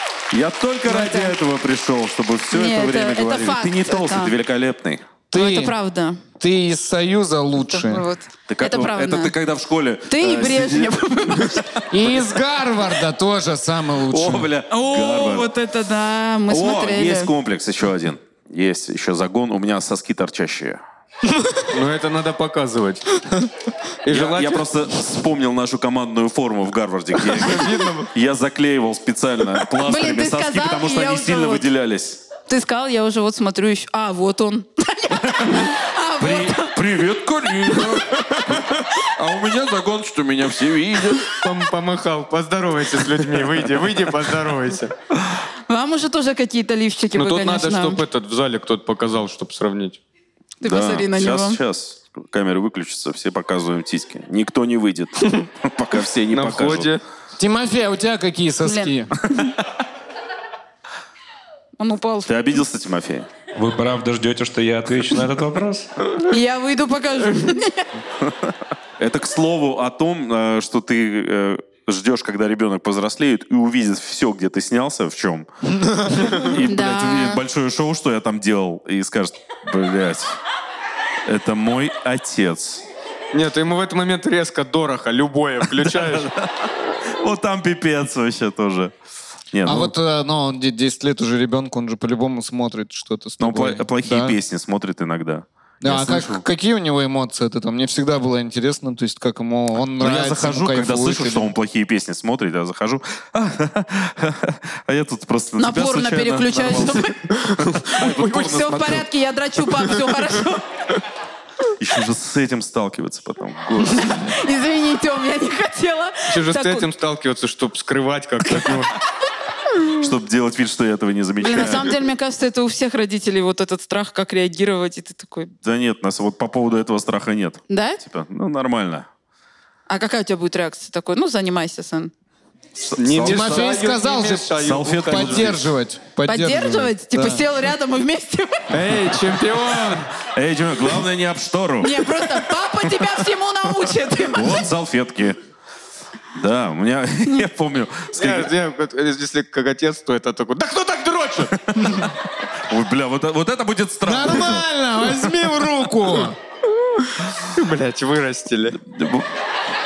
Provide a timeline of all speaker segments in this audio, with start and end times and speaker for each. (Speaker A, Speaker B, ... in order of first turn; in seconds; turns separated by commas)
Speaker A: 0.3-5.0, Speaker B: 0.8-1.3, Speaker B: 2.5-4.3, Speaker C: 5.3-5.8, Speaker B: 5.3-6.2, Speaker C: 6.4-8.1, Speaker B: 7.6-9.3, Speaker A: 8.5-12.2, Speaker B: 10.1-11.7, Speaker C: 11.9-14.5, Speaker A: 14.1-15.5, Speaker B: 14.7-17.3, Speaker A: 16.5-20.8, Speaker D: 21.7-23.5, Speaker D: 24.0-24.6, Speaker A: 24.1-32.2, Speaker D: 27.3-28.1, Speaker B: 29.8-31.7, Speaker B: 32.5-36.8, Speaker A: 35.2-41.4, Speaker D: 41.4-44.9, Speaker A: 43.2-43.7, Speaker B: 45.7-48.0, Speaker D: 47.1-50.0, Speaker B: 50.6-51.6, Speaker A: 50.6-56.9, Speaker D: 56.3-57.0, Speaker C: 57.4-59.1, Speaker B: 58.6-58.9, Speaker A: 59.2-59.5, Speaker B: 61.8-62.6, Speaker A: 62.2-63.3, Speaker E: 63.5-65.9, Speaker B: 66.2-67.9, Speaker A: 69.0-75.5, Speaker A: 76.0-80.4, Speaker B: 76.6-77.4, Speaker A: 81.2-82.8, Speaker D: 83.3-86.3, Speaker A: 85.8-88.9, Speaker A: 89.5-89.9, Speaker C: 89.6-94.4, Speaker A: 93.4-96.4, Speaker C: 95.8-101.5, Speaker A: 100.0-109.1, Speaker B: 105.6-107.2, Speaker D: 107.5-107.9, Speaker B: 108.0-110.6, Speaker A: 111.8-114.3, Speaker B: 113.8-116.9, Speaker D: 116.3-118.9, Speaker A: 120.0-122.0, Speaker B: 121.4-125.5, Speaker A: 125.6-129.1, Speaker B: 127.7-128.0, Speaker B: 129.9-132.1, Speaker A: 132.8-133.9, Speaker D: 132.9-135.5, Speaker C: 133.2-137.4, Speaker A: 134.6-135.7, Speaker B: 136.2-138.7, Speaker D: 138.7-140.1, Speaker A: 140.2-142.4, Speaker B: 141.8-144.6, Speaker A: 144.3-145.4, Speaker A: 146.3-148.5, Speaker D: 148.2-151.6, Speaker A: 151.9-152.1, Speaker A: 152.7-154.7, Speaker C: 154.0-156.4, Speaker D: 156.9-158.8, Speaker A: 158.8-159.3